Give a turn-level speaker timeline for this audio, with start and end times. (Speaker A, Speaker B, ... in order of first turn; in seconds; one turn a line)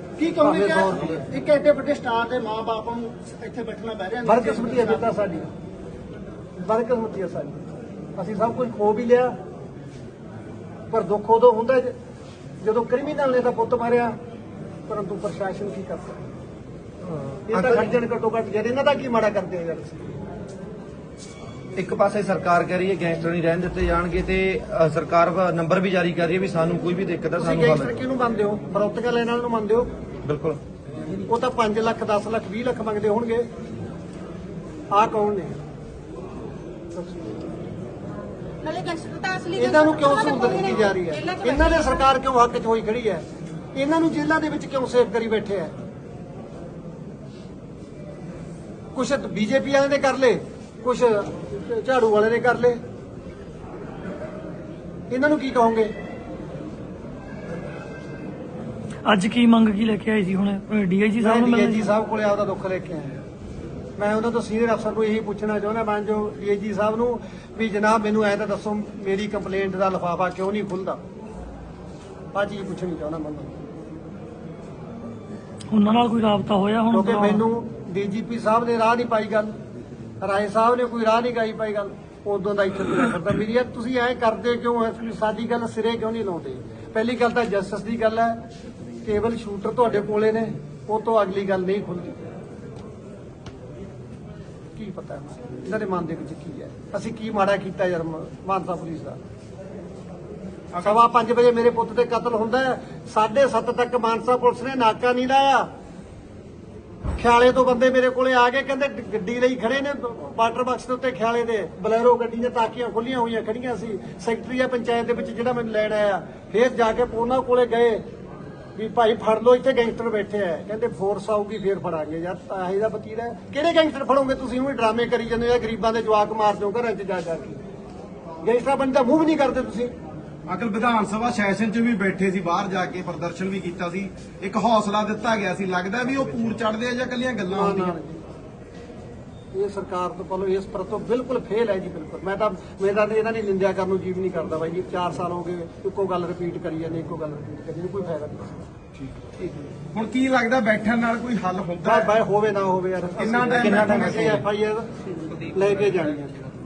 Speaker A: 0.4-1.2
Speaker B: 0.4-4.9
Speaker A: 4.2-5.5
Speaker A: 6.6-7.6
Speaker A: 8.2-9.3
Speaker A: 10.9-11.9
Speaker A: 12.6-14.1
Speaker A: 14.9-16.2
Speaker C: 17.1-17.9
Speaker A: 17.5-20.1
Speaker C: 21.8-27.9
Speaker A: 27.4-29.9
Speaker C: 30.2-30.6
Speaker A: 31.3-33.5
Speaker A: 34.9-35.6
Speaker A: 36.9-37.5
Speaker D: 38.6-42.0
Speaker A: 39.5-45.7
Speaker A: 48.9-52.8
Speaker A: 55.1-55.9
Speaker E: 59.0-61.9
Speaker A: 61.2-63.2
Speaker A: 64.0-71.0
Speaker A: 72.3-73.5
Speaker E: 75.7-77.4
Speaker A: 76.9-79.5
Speaker A: 80.2-88.4
Speaker A: 89.0-92.2
Speaker A: 94.7-99.2
Speaker A: 100.8-105.7
Speaker A: 107.2-118.0
Speaker A: 118.8-127.6
Speaker A: 128.4-129.9
Speaker F: 130.5-137.9
Speaker A: 137.4-138.2
Speaker A: 139.5-148.6
Speaker F: 149.9-152.1
Speaker A: 151.8-156.4
Speaker F: 153.2-154.4
Speaker C: 153.7-154.4